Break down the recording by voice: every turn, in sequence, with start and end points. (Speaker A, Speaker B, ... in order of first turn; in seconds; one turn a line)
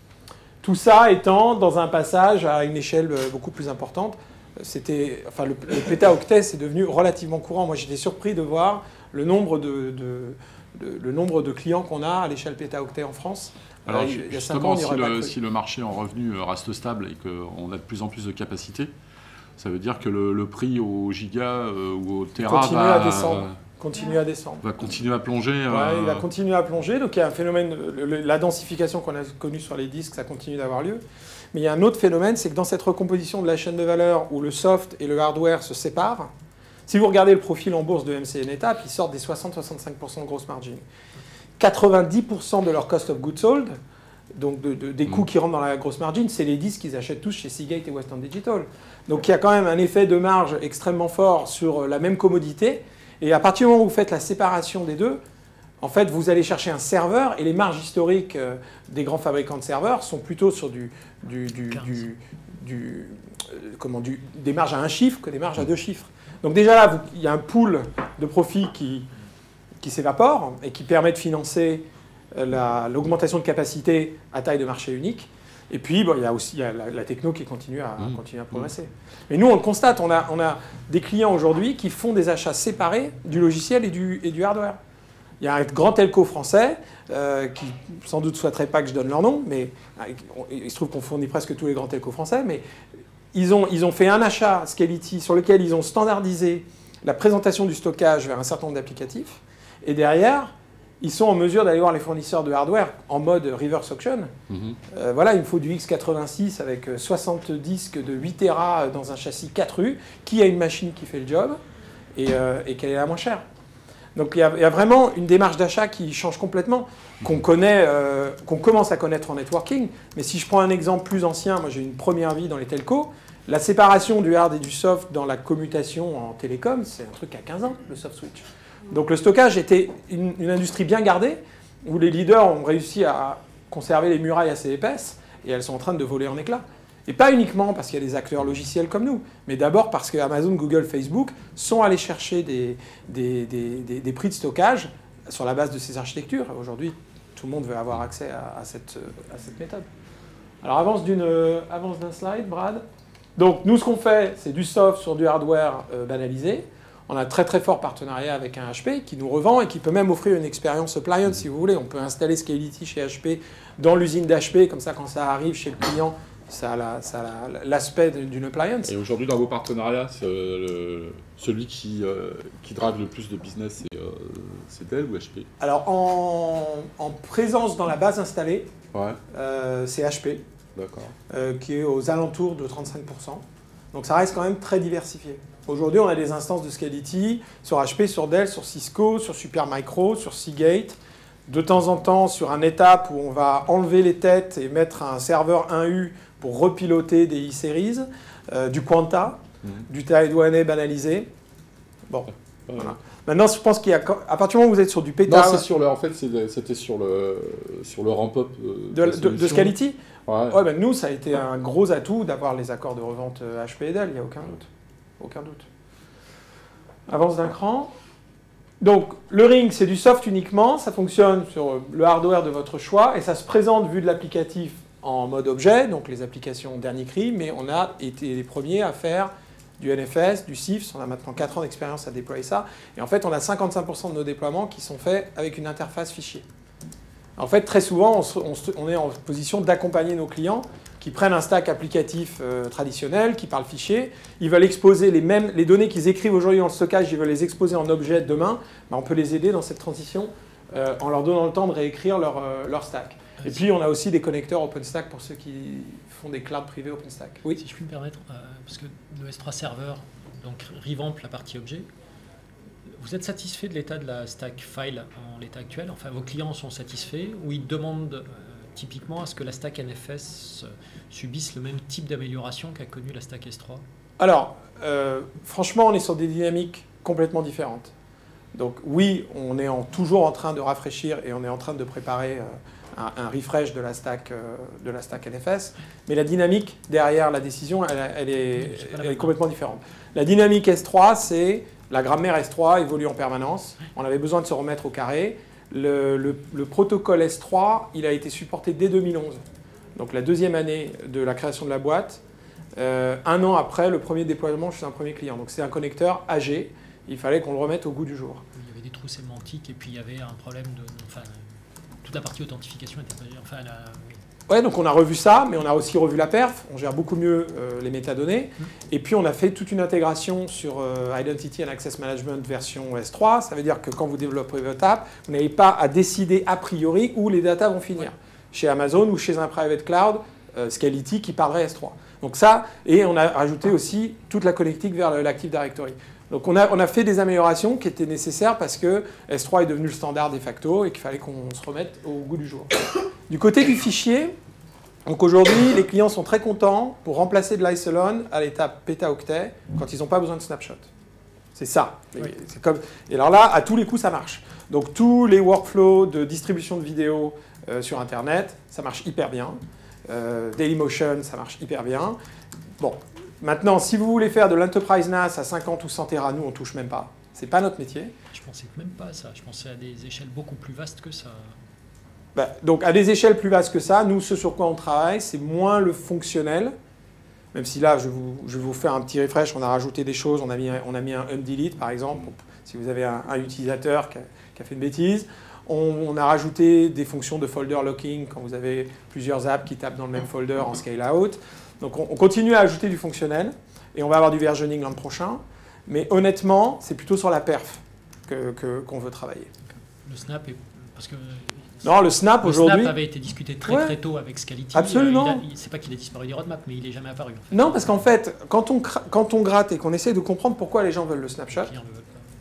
Speaker A: 0.6-15.3
Speaker B: 13.8-18.9
Speaker B: 19.6-23.6
Speaker A: 22.4-24.6
Speaker B: 24.6-26.2
Speaker A: 25.7-36.3
Speaker A: 36.9-40.9
Speaker A: 41.6-43.8
Speaker A: 44.3-55.2
Speaker A: 55.8-69.1
Speaker C: 61.7-62.0
Speaker A: 69.8-84.8
Speaker A: 85.4-92.6
Speaker A: 93.3-104.3
Speaker B: 104.5-104.8
Speaker A: 104.9-111.6
Speaker A: 112.2-113.4
Speaker A: 114.1-149.9
Speaker A: 150.6-152.8
Speaker A: 153.4-168.9
Speaker B: 168.8-175.5
Speaker A: 175.6-178.7
Speaker B: 178.9-179.2
Speaker A: 179.3-180.4
Speaker B: 180.8-181.1
Speaker A: 181.3-201.3
Speaker A: 202.1-205.7
Speaker B: 202.7-202.9
Speaker B: 205.3-209.8
Speaker A: 208.9-214.7
Speaker B: 210.3-210.6
Speaker A: 215.2-215.7
Speaker A: 217.1-217.9
Speaker A: 218.8-236.4
Speaker A: 237.4-257.6
Speaker C: 257.5-261.9
Speaker C: 262.9-273.8
Speaker A: 274.2-277.9
Speaker A: 278.5-299.4
Speaker C: 288.5-289.4
Speaker A: 299.9-302.2
Speaker A: 302.8-308.4
Speaker C: 308.5-314.2
Speaker A: 314.5-344.4
Speaker A: 345.0-350.9
Speaker A: 351.5-362.2
Speaker A: 362.8-368.1
Speaker C: 368.3-371.6
Speaker A: 372.4-376.8
Speaker A: 377.5-399.5
Speaker C: 400.0-407.8
Speaker A: 401.8-402.9
Speaker A: 403.6-403.9
Speaker A: 404.7-405.4
Speaker A: 407.5-411.7
Speaker C: 411.5-412.3